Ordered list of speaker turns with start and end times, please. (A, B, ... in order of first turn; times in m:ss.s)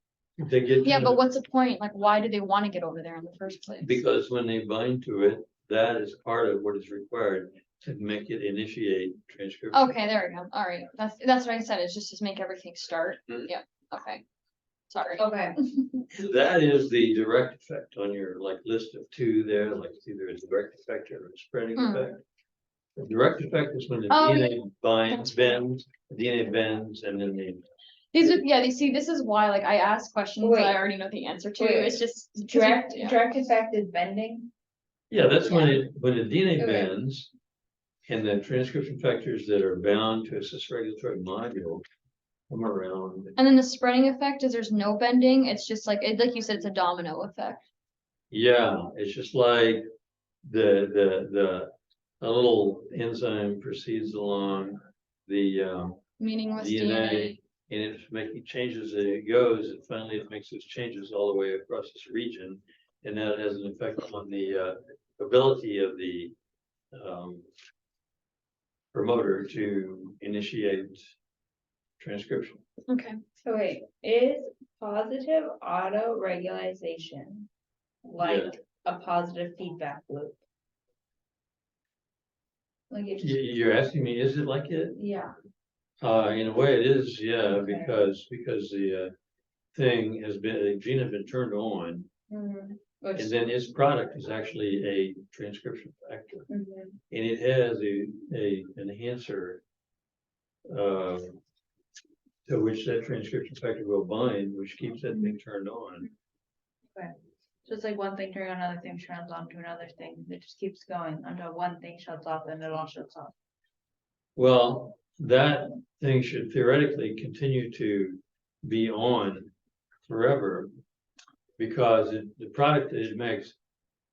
0:00.4-0:01.2 A
0:00.8-0:04.0 B
0:03.8-0:10.0 A
0:09.7-0:14.2 B
0:14.9-0:16.0 B
0:15.2-0:15.6 C
0:16.1-0:22.2 A
0:21.8-0:22.0 B
0:23.0-0:27.6 A
0:24.1-0:24.6 B
0:25.1-0:25.4 B
0:28.1-0:33.4 B
0:30.4-0:30.8 C
0:31.6-0:34.5 C
0:35.1-0:37.3 A
0:36.6-0:36.9 C
0:38.1-0:41.8 A
0:42.5-0:43.3 A
0:43.4-0:47.6 B
0:48.3-0:49.8 A
0:50.4-0:56.0 A
0:56.2-0:57.4 B
0:56.6-1:06.3 A
1:06.9-1:07.4 A
1:08.9-1:11.1 A
1:12.0-1:12.6 A
1:12.9-1:13.2 B
1:13.4-1:17.5 C
1:18.0-1:20.4 C
1:18.2-1:18.5 A
1:22.9-1:23.4 C
1:23.2-1:25.0 A
1:24.9-1:25.3 C
1:26.0-1:29.1 A
1:27.4-1:28.0 C
1:29.7-1:32.1 A
1:32.3-1:33.3 C
1:33.2-1:36.5 A
1:36.5-1:37.0 C
1:37.1-1:39.6 A
1:40.7-1:41.4 A
1:42.4-1:46.1 A
1:47.6-1:53.3 C
1:54.4-1:59.5 A
2:00.0-2:00.7 A
2:01.6-2:03.6 A